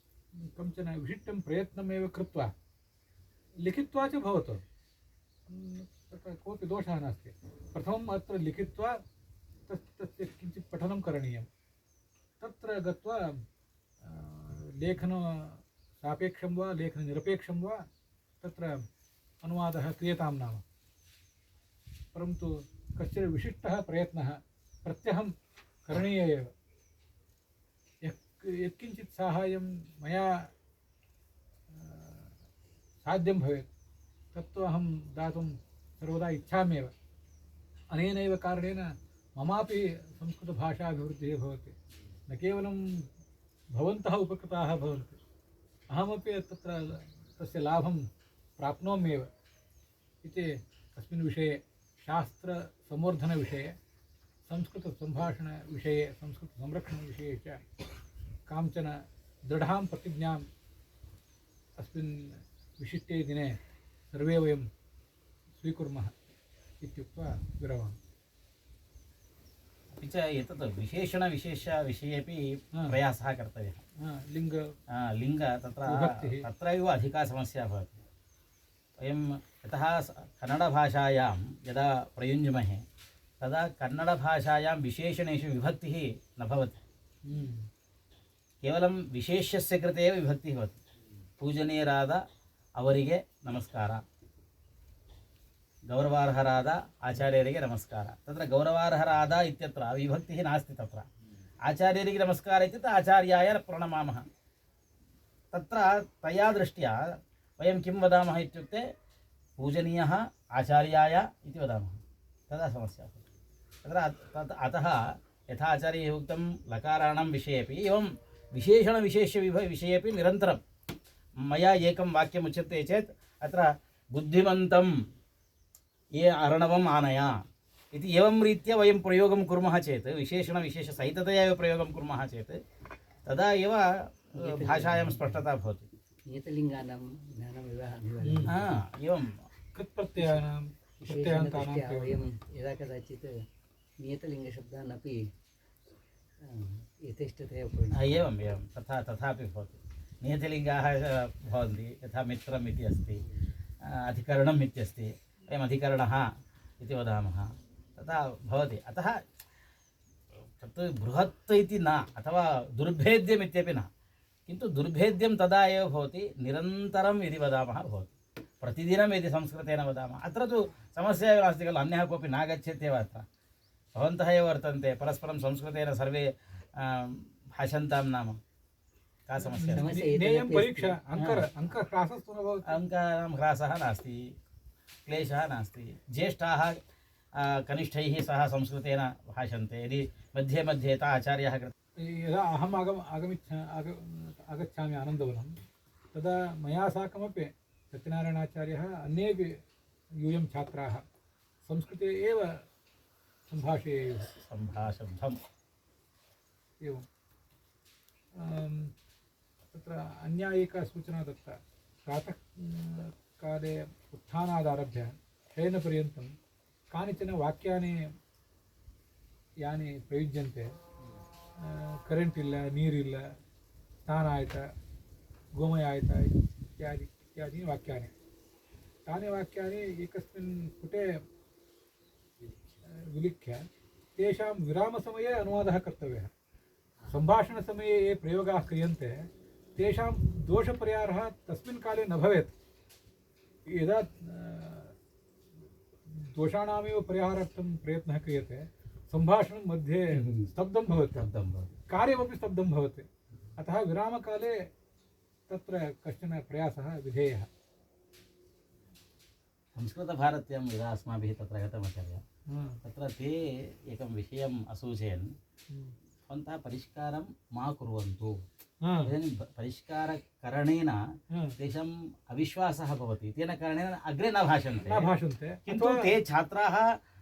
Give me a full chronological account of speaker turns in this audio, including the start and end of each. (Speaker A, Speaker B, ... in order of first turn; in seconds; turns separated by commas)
Speaker A: 0.4-2.5, Speaker A: 3.6-4.6, Speaker A: 5.5-9.0, Speaker A: 9.7-11.5, Speaker A: 12.4-13.4, Speaker A: 14.0-17.9, Speaker A: 18.4-18.8, Speaker A: 19.4-20.6, Speaker A: 22.1-25.3, Speaker A: 25.9-26.5, Speaker A: 28.1-30.5, Speaker A: 31.7-32.4, Speaker A: 33.0-33.7, Speaker A: 34.3-36.9, Speaker A: 37.9-41.8, Speaker A: 42.3-43.1, Speaker A: 43.7-45.2, Speaker A: 45.9-48.1, Speaker A: 48.6-49.3, Speaker A: 50.2-53.8, Speaker A: 54.5-57.6, Speaker A: 58.5-60.5, Speaker A: 61.8-63.6, Speaker A: 64.1-64.7, Speaker A: 65.6-66.1, Speaker A: 66.8-68.0, Speaker B: 69.9-73.8, Speaker A: 74.0-74.8, Speaker B: 74.9-78.0, Speaker A: 75.8-76.5, Speaker B: 79.0-82.9, Speaker B: 83.4-86.8, Speaker A: 87.2-87.7, Speaker B: 88.6-90.8, Speaker B: 91.4-92.2, Speaker B: 92.8-94.0, Speaker B: 95.9-101.1, Speaker B: 101.7-104.3, Speaker B: 105.5-108.9, Speaker B: 109.6-113.3, Speaker B: 113.8-120.6, Speaker B: 121.4-124.9, Speaker B: 126.1-132.6, Speaker B: 133.2-135.9, Speaker C: 134.4-135.4, Speaker C: 136.3-138.8, Speaker A: 138.2-138.6, Speaker B: 138.5-139.5, Speaker A: 139.8-142.2, Speaker C: 141.0-143.4, Speaker C: 144.0-145.2, Speaker C: 146.4-148.3, Speaker B: 147.9-153.2, Speaker B: 153.8-159.2, Speaker B: 160.6-163.9, Speaker B: 164.5-173.3, Speaker B: 173.9-178.4, Speaker B: 179.3-179.9, Speaker A: 179.4-182.8, Speaker C: 179.6-181.0, Speaker B: 181.2-181.5, Speaker B: 182.7-184.3, Speaker B: 185.1-186.8, Speaker B: 187.3-191.7, Speaker A: 192.0-195.6, Speaker A: 196.1-199.6, Speaker A: 200.2-201.0, Speaker A: 201.6-202.6, Speaker A: 203.5-204.3, Speaker B: 204.3-205.4, Speaker A: 206.8-207.1, Speaker A: 208.3-208.9, Speaker A: 209.7-216.3, Speaker A: 216.9-218.1, Speaker A: 219.6-220.8, Speaker A: 221.6-223.3, Speaker A: 224.0-224.7, Speaker A: 225.6-228.1, Speaker A: 229.1-231.2, Speaker A: 232.8-236.3, Speaker A: 237.1-242.5, Speaker A: 243.7-244.9, Speaker A: 246.1-251.3, Speaker B: 250.1-250.5, Speaker B: 251.2-251.7, Speaker A: 251.9-254.7, Speaker A: 255.5-257.5, Speaker B: 259.8-262.2, Speaker A: 262.5-262.8, Speaker B: 262.8-265.4, Speaker A: 265.7-265.9, Speaker B: 266.3-268.4, Speaker A: 268.8-269.1, Speaker B: 269.1-275.1, Speaker A: 271.3-271.6, Speaker A: 274.8-276.1, Speaker B: 275.7-277.0